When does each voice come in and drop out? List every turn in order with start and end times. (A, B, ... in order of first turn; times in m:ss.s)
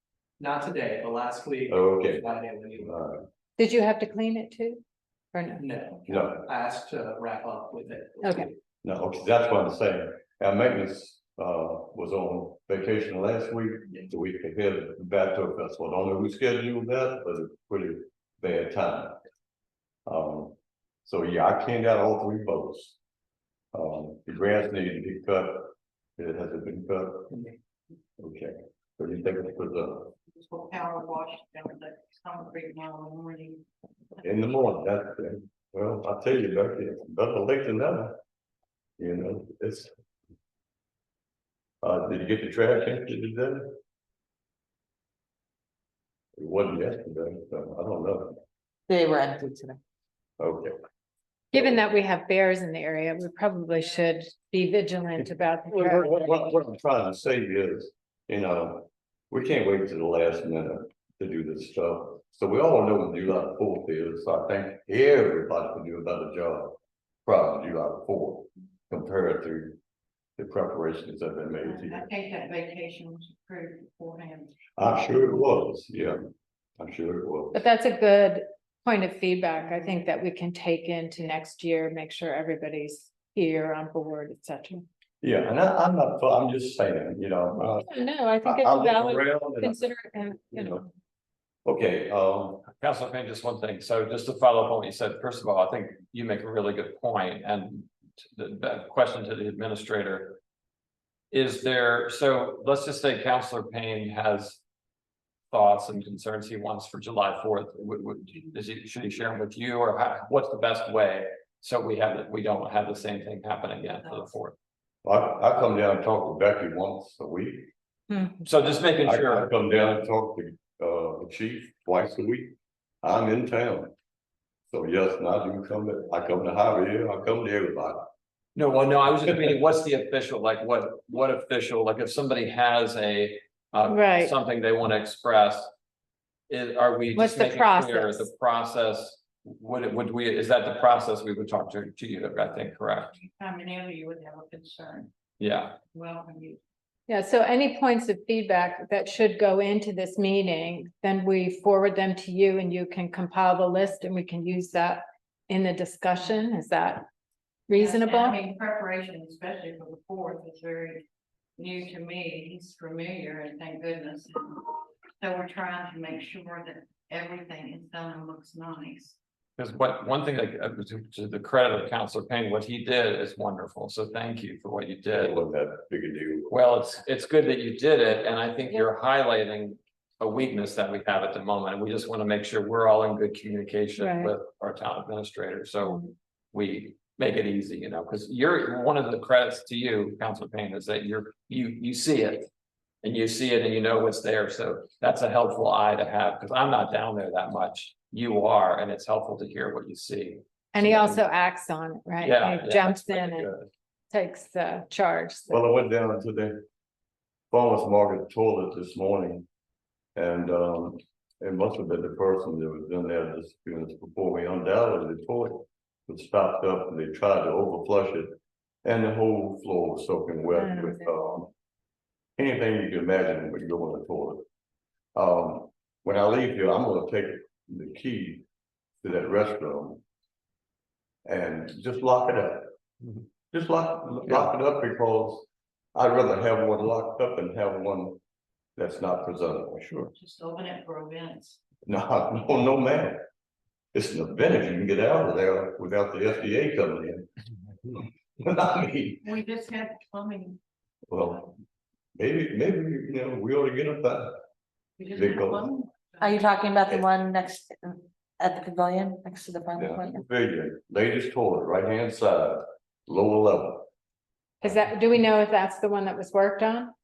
0:00.4-0:02.9 A
0:01.7-0:03.2 B
0:03.6-0:04.8 C
0:05.3-0:05.7 C
0:05.6-0:08.5 A
0:06.1-0:06.5 B
0:08.2-0:08.5 C
0:08.8-0:19.2 B
0:20.1-0:23.0 B
0:23.7-0:27.3 B
0:28.2-0:30.2 B
0:30.3-0:33.6 D
0:34.2-0:38.2 B
0:39.0-0:39.9 B
0:41.8-0:43.8 B
0:46.4-0:48.4 B
0:48.9-0:49.8 E
0:50.4-0:50.8 B
0:51.5-0:56.6 C
0:51.5-0:51.8 B
0:55.7-1:09.8 B
1:10.4-1:12.1 B
1:11.6-1:14.6 D
1:14.8-1:17.6 B
1:17.5-1:24.8 C
1:19.6-1:19.9 D
1:25.2-1:27.9 B
1:27.8-1:30.8 C
1:28.4-1:29.8 B
1:30.5-1:30.8 B
1:31.6-1:32.7 B
1:32.7-1:40.4 F
1:41.3-1:44.6 F
1:45.5-1:54.6 F
1:55.0-1:57.7 B
1:58.4-1:59.5 F
1:59.0-2:03.9 B
2:04.7-2:08.1 B
2:08.6-2:15.7 F
2:13.9-2:14.3 C
2:16.5-2:23.1 F
2:17.1-2:18.3 C
2:23.1-2:25.1 D
2:25.4-2:25.8 F
2:25.9-2:26.6 D
2:27.1-2:37.1 C
2:37.7-2:38.4 C
2:37.8-2:41.0 D
2:41.6-2:49.2 D
2:49.6-2:55.4 F
2:55.1-2:56.6 B
2:56.5-3:12.5 F
3:04.0-3:04.3 C
3:05.8-3:06.1 C
3:13.0-3:21.2 F
3:20.8-3:23.5 C
3:22.2-3:23.7 F
3:24.1-3:25.7 C
3:25.5-3:26.6 B
3:27.5-3:29.5 B
3:30.2-3:41.5 B
3:40.6-3:41.1 C
3:42.4-3:44.4 B
3:45.2-3:48.4 B
3:49.0-3:50.0 B
3:51.2-3:52.7 B
3:53.5-3:58.2 B
3:58.8-4:00.1 B
4:00.2-4:01.6 D
4:01.8-4:03.2 B
4:03.9-4:07.3 B
4:07.9-4:09.3 B
4:09.2-4:10.6 D
4:11.1-4:11.5 B
4:12.2-4:14.4 B
4:15.0-4:16.8 D
4:15.1-4:15.7 B
4:16.2-4:20.2 E
4:19.8-4:23.9 B
4:24.6-4:26.9 C